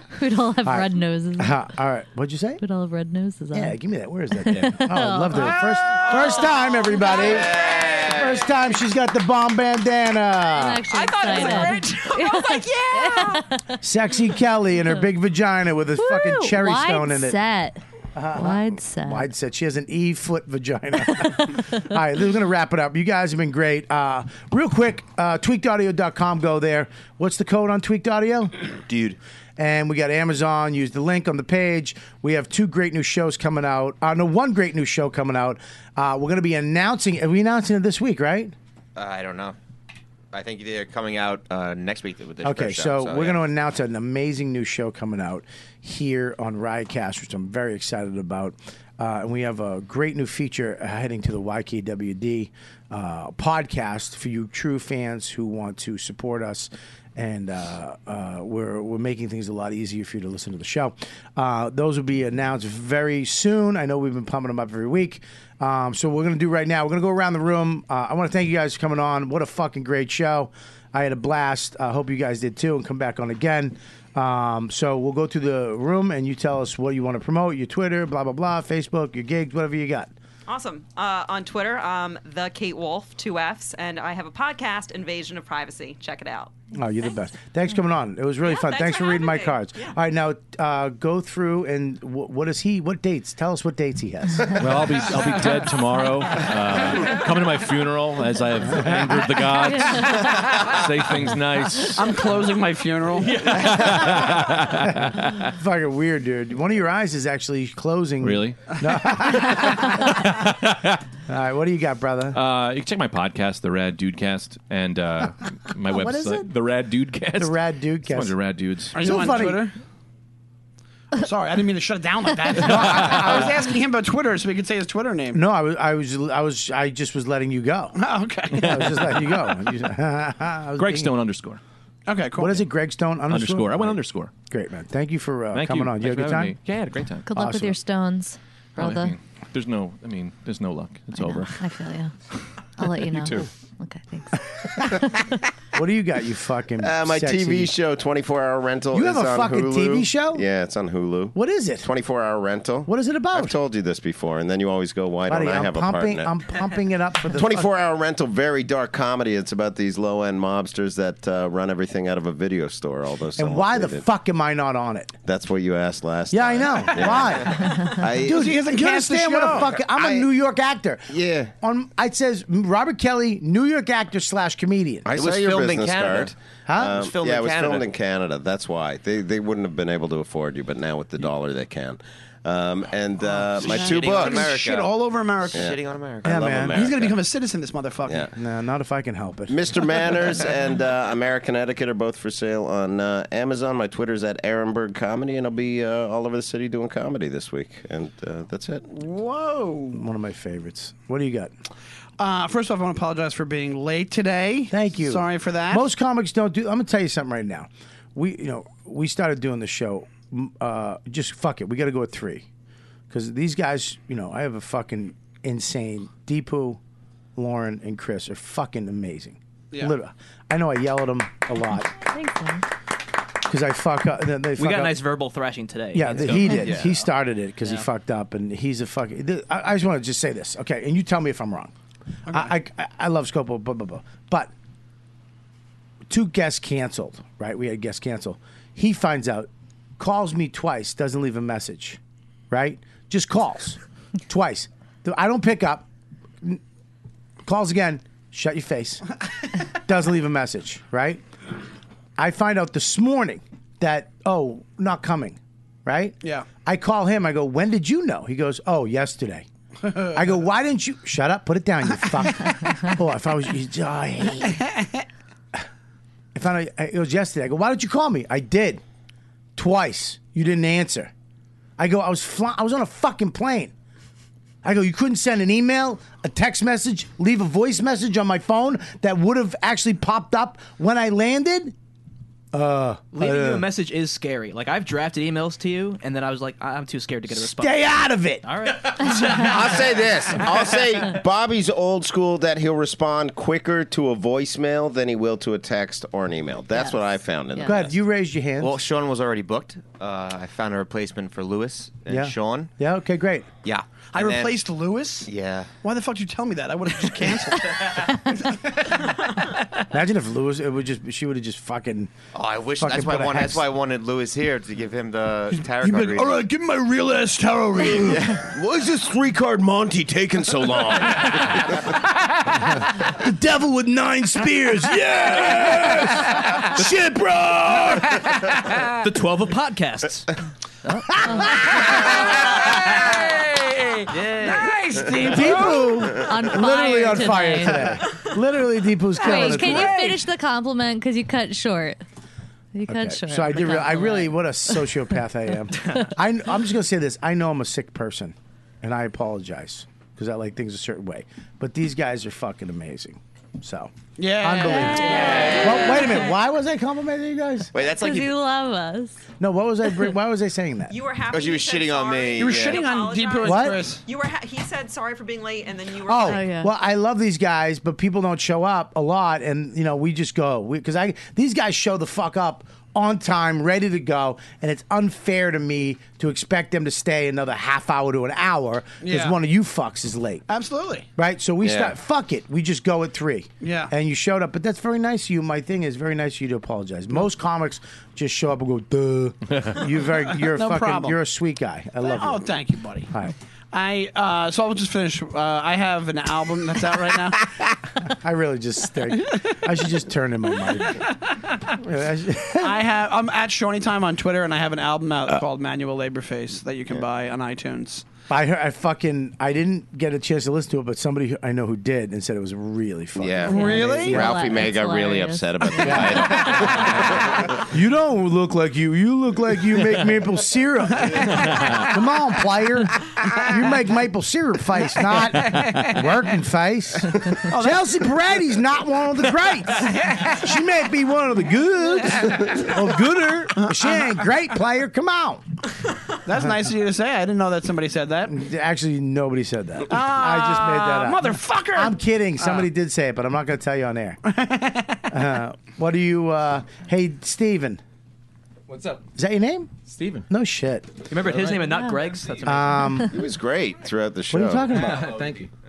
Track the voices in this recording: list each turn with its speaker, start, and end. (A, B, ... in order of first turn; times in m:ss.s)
0:00.1-0:01.6 A
0:00.6-0:02.6 B
0:02.6-0:03.8 A
0:03.5-0:10.9 B
0:04.4-0:05.6 A
0:05.9-0:08.5 C
0:07.2-0:08.2 D
0:10.5-0:13.8 A
0:10.9-0:13.4 C
0:11.4-0:11.6 B
0:13.8-0:17.4 B
0:16.0-0:17.8 A
0:18.1-0:28.5 B
0:18.3-0:19.3 A
0:28.9-0:29.2 D
0:29.6-0:38.5 B
0:39.0-0:39.6 D
0:40.3-0:43.4 D
0:42.4-1:20.1 B
1:20.5-1:26.6 C
1:26.7-1:35.1 B
1:28.4-1:30.0 C
1:34.6-1:42.3 E
1:38.8-1:39.2 B
1:39.8-1:40.3 A
1:41.9-1:43.3 F
1:43.2-1:45.5 E
1:45.0-1:50.4 B
1:48.2-1:48.6 E
1:50.4-1:51.0 E
1:51.3-1:52.4 B
1:52.3-1:59.3 E
1:55.9-1:56.4 B
1:57.4-1:58.4 B
1:58.9-1:59.7 F
1:59.0-1:59.7 B
2:01.1-2:05.4 F
2:02.6-2:03.6 B
2:05.3-2:08.0 B
2:07.9-2:09.2 F
2:08.5-2:11.1 B
2:10.8-2:11.6 E
2:12.1-2:12.7 F
2:12.4-2:16.6 B
2:13.3-2:14.3 E
2:15.5-2:17.3 E
2:17.2-2:19.1 A
2:17.3-2:17.8 B
2:18.8-2:21.6 E
2:21.2-2:22.1 A
2:22.8-2:25.3 A
2:23.0-2:23.5 E
2:25.7-2:27.7 B
2:26.8-2:36.5 G
2:28.9-2:30.4 B
2:31.3-2:31.9 B
2:32.8-2:33.6 B
2:35.3-2:37.7 B
2:37.3-2:44.1 G
2:43.4-2:45.1 B
2:45.2-2:48.5 G
2:46.3-2:55.1 B
2:47.8-2:49.7 F
2:49.9-2:50.2 G
2:51.1-2:51.5 G
2:55.1-2:57.9 D
2:55.1-3:04.5 G
2:56.6-2:57.0 B
3:03.6-3:05.6 F
3:03.6-3:04.9 D
3:05.5-3:06.4 D
3:05.5-3:07.2 G
3:06.2-3:06.8 B
3:06.7-3:08.3 F
3:08.3-3:09.6 B
3:09.5-3:18.9 G
3:18.9-3:20.0 F
3:19.9-3:21.5 B
3:22.2-3:25.9 F
3:24.7-3:32.4 B
3:33.1-3:36.8 B
3:37.4-3:41.9 B
3:42.1-3:42.6 A
3:43.5-3:45.0 B
3:44.6-3:47.1 H
3:45.9-3:51.7 B
3:47.6-3:47.9 H
3:52.3-3:52.5 F
3:52.3-3:54.5 B
3:56.1-4:02.0 B
4:02.5-4:05.8 B
4:07.4-4:09.0 B
4:09.8-4:11.2 B
4:12.2-4:19.4 B
4:16.2-4:16.5 F
4:19.9-4:20.2 F
4:20.1-4:24.6 B
4:24.5-4:24.8 F
4:26.3-4:28.8 B
4:29.6-4:31.1 B
4:31.8-4:33.7 B
4:34.6-4:41.7 B
4:42.5-4:43.7 B
4:43.1-4:47.9 H
4:47.3-4:48.4 B
4:48.4-4:49.9 H
4:49.0-4:57.9 G
4:57.6-4:58.8 B
4:58.6-5:02.7 D
5:02.1-5:03.5 B
5:03.6-5:04.5 D
5:04.1-5:05.3 F
5:05.2-5:05.7 D
5:05.8-5:09.2 F
5:09.9-5:12.1 B
5:12.3-5:16.4 D
5:12.8-5:13.6 B
5:15.6-5:18.2 F
5:18.1-5:18.4 D
5:18.3-5:21.7 G
5:22.6-5:28.4 B
5:29.0-5:30.3 H
5:31.7-5:36.2 F
5:34.1-5:34.7 H
5:35.2-5:40.1 B
5:36.1-5:37.8 A
5:39.2-5:40.2 F
5:39.2-5:42.0 A
5:42.7-5:44.8 A
5:42.9-5:57.7 B
5:54.2-5:56.0 F
5:54.7-5:56.2 A
5:57.7-5:58.3 D
5:57.9-5:59.2 A
5:59.4-6:01.0 B
6:00.9-6:06.5 C
6:01.3-6:02.9 D
6:02.4-6:04.0 F
6:03.4-6:03.9 B
6:06.0-6:20.4 B
6:06.2-6:06.7 A
6:19.0-6:19.4 F
6:20.5-6:21.1 F
6:21.2-6:32.5 B
6:21.6-6:21.9 G
6:23.6-6:23.9 F
6:30.2-6:31.2 F
6:32.0-6:33.1 F
6:33.7-6:37.4 F
6:38.0-6:41.0 B
6:41.0-6:41.4 F
6:41.8-6:42.8 B
6:42.6-6:48.0 F
6:48.3-6:54.2 B
6:53.2-6:57.4 G
6:53.4-6:54.3 F
6:53.5-6:56.6 A
6:55.8-6:56.4 B
6:57.5-7:15.4 B
7:01.0-7:01.5 F
7:05.0-7:06.2 F
7:07.3-7:08.1 F
7:09.8-7:10.6 F
7:12.0-7:12.8 F
7:13.5-7:14.3 F
7:16.2-7:18.4 F
7:18.3-7:24.2 B
7:19.9-7:22.7 F
7:24.2-7:25.4 F
7:25.1-7:27.8 B
7:28.7-7:29.0 I
7:29.2-7:29.7 B
7:29.8-7:30.3 I
7:30.3-7:30.9 B
7:31.1-7:33.0 H
7:31.2-7:31.8 I
7:31.7-7:32.0 A
7:32.4-7:33.2 B
7:33.0-7:34.8 G
7:34.3-7:35.2 B
7:34.7-7:35.5 I